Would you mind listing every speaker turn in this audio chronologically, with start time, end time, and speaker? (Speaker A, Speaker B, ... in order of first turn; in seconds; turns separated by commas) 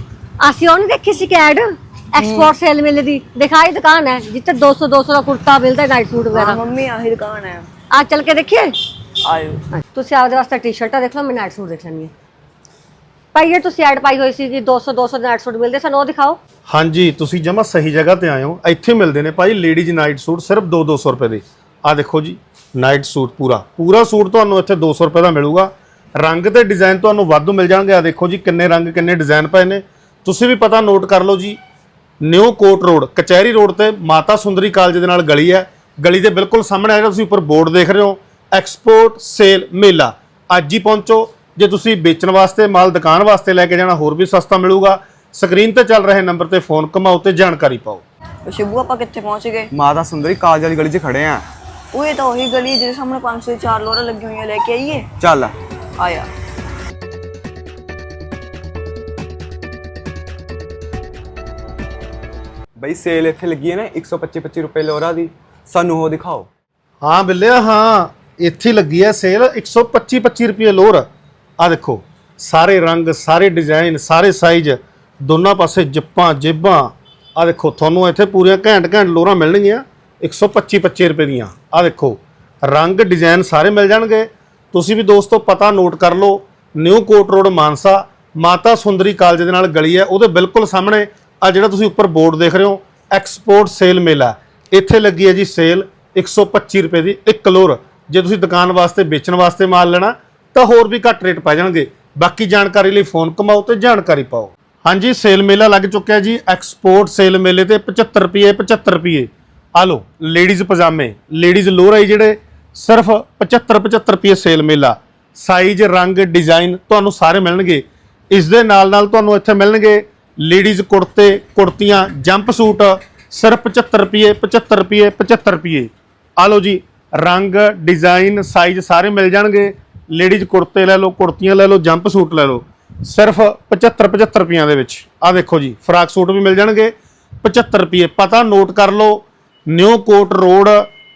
Speaker A: 0.4-6.6, Speaker B: 2.2-2.5, Speaker B: 6.3-7.7, Speaker A: 7.9-8.7, Speaker B: 9.2-9.6, Speaker A: 9.7-12.1, Speaker A: 13.3-16.4, Speaker C: 16.7-31.6, Speaker C: 32.2-48.0, Speaker B: 48.5-49.7, Speaker D: 49.7-51.4, Speaker B: 51.9-55.1, Speaker D: 55.2-55.5, Speaker B: 56.0-56.3, Speaker D: 62.8-66.5, Speaker C: 67.0-71.1, Speaker C: 71.6-140.9